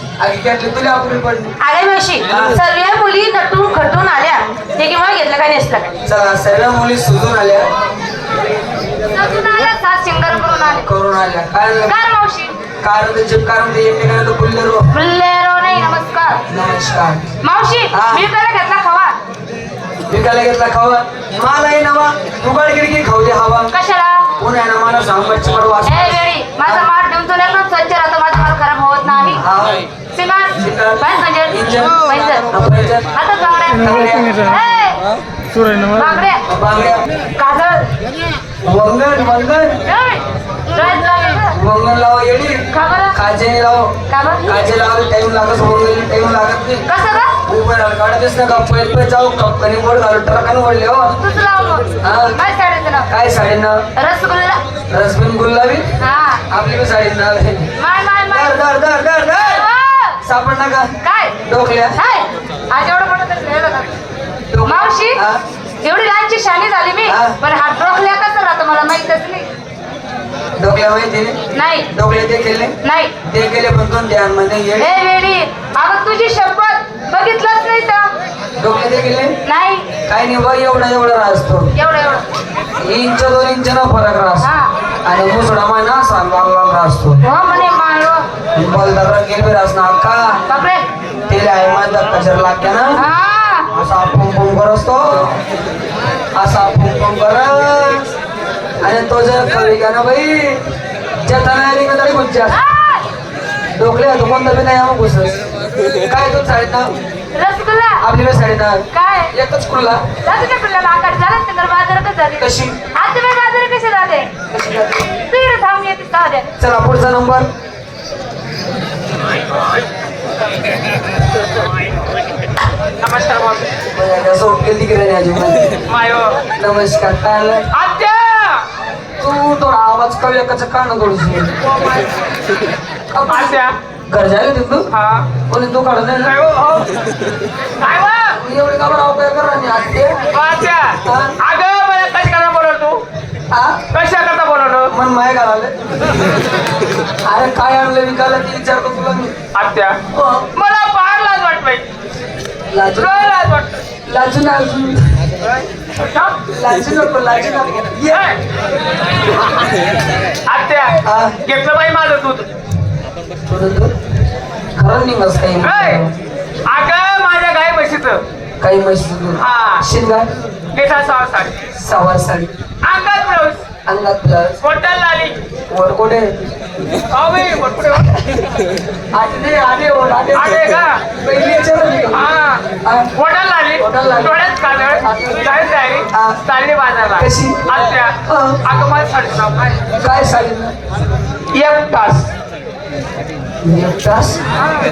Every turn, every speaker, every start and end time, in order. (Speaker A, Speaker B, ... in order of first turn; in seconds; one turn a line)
Speaker A: 0.2-1.6
Speaker B: 1.6-5.9
Speaker A: 2.2-2.6
Speaker A: 6.0-7.7
Speaker B: 9.1-10.9
Speaker A: 10.8-12.0
Speaker B: 11.9-12.6
Speaker A: 12.8-14.9
Speaker B: 14.9-16.4
Speaker A: 16.5-17.2
Speaker B: 17.4-19.2
Speaker A: 17.9-18.3
Speaker A: 20.1-23.7
Speaker B: 23.7-24.3
Speaker A: 24.4-26.9
Speaker B: 25.9-29.4
Speaker A: 29.3-29.9
Speaker B: 30.1-32.5
Speaker A: 30.6-33.1
Speaker B: 33.1-35.1
Speaker A: 33.8-34.5
Speaker B: 35.8-36.4
Speaker A: 36.5-37.1
Speaker B: 37.3-37.9
Speaker A: 38.6-39.8
Speaker B: 39.9-41.6
Speaker A: 41.5-43.9
Speaker B: 42.7-43.2
Speaker B: 44.1-44.5
Speaker A: 44.4-46.9
Speaker B: 46.9-47.3
Speaker A: 47.5-51.2
Speaker B: 51.2-53.1
Speaker A: 52.0-52.4
Speaker A: 53.1-53.8
Speaker B: 54.0-54.6
Speaker A: 54.9-55.8
Speaker B: 56.0-56.4
Speaker A: 56.5-57.7
Speaker B: 57.8-58.6
Speaker A: 58.3-59.7
Speaker B: 59.3-60.2
Speaker A: 60.2-60.9
Speaker B: 61.0-61.4
Speaker A: 61.5-62.0
Speaker B: 61.9-63.9
Speaker A: 64.5-65.4
Speaker B: 64.6-65.2
Speaker B: 65.8-69.5
Speaker A: 67.0-67.4
Speaker A: 70.6-71.4
Speaker B: 71.5-71.9
Speaker A: 71.9-75.0
Speaker B: 72.8-73.1
Speaker B: 74.8-78.1
Speaker A: 78.6-79.4
Speaker B: 79.4-79.9
Speaker A: 80.0-81.7
Speaker B: 81.7-82.2
Speaker A: 82.8-84.5
Speaker B: 84.4-84.7
Speaker A: 85.0-87.2
Speaker B: 87.2-88.2
Speaker A: 88.5-90.4
Speaker B: 90.5-90.8
Speaker A: 91.3-93.0
Speaker B: 93.0-93.7
Speaker A: 93.7-95.4
Speaker A: 96.3-98.1
Speaker A: 98.8-100.6
Speaker A: 101.2-102.6
Speaker B: 102.5-103.1
Speaker A: 103.8-105.4
Speaker A: 106.0-106.9
Speaker B: 107.3-108.0
Speaker A: 108.0-110.0
Speaker B: 108.9-109.3
Speaker B: 110.2-114.3
Speaker A: 112.4-112.8
Speaker A: 114.5-115.1
Speaker B: 115.2-116.5
Speaker A: 116.6-117.5
Speaker C: 123.0-123.7
Speaker A: 123.9-125.8
Speaker C: 125.8-126.4
Speaker A: 126.6-127.7
Speaker C: 127.7-128.7
Speaker A: 129.2-131.5
Speaker A: 133.1-134.9
Speaker C: 133.3-133.8
Speaker C: 134.9-135.3
Speaker A: 135.5-136.4
Speaker C: 136.2-136.9
Speaker C: 137.8-138.4
Speaker A: 138.4-140.2
Speaker C: 140.3-143.0
Speaker A: 141.0-141.4
Speaker A: 143.5-143.8
Speaker C: 143.9-144.9
Speaker A: 144.9-145.7
Speaker A: 147.2-149.3
Speaker C: 149.5-150.0
Speaker A: 150.1-150.5
Speaker C: 150.5-151.9
Speaker A: 152.7-153.2
Speaker C: 152.9-153.8
Speaker A: 154.1-155.1
Speaker C: 155.9-156.4
Speaker A: 156.5-158.3
Speaker C: 158.1-158.4
Speaker C: 160.4-162.5
Speaker A: 161.0-161.4
Speaker A: 163.5-163.9
Speaker A: 164.8-166.2
Speaker C: 165.6-166.1
Speaker C: 166.7-168.2
Speaker A: 168.6-170.3
Speaker C: 169.4-169.8
Speaker C: 170.7-171.6
Speaker A: 171.8-172.5
Speaker C: 172.8-173.7
Speaker A: 173.8-174.6
Speaker C: 174.6-175.4
Speaker A: 175.7-176.3
Speaker C: 177.1-178.2
Speaker A: 179.1-182.3
Speaker C: 180.3-181.0
Speaker C: 182.1-182.6
Speaker A: 182.8-183.1
Speaker C: 183.2-189.8
Speaker A: 183.8-184.4
Speaker A: 185.0-185.5
Speaker A: 186.1-186.4
Speaker A: 187.2-187.7
Speaker A: 188.2-188.7
Speaker A: 190.0-190.8
Speaker C: 191.5-192.3
Speaker A: 193.6-194.4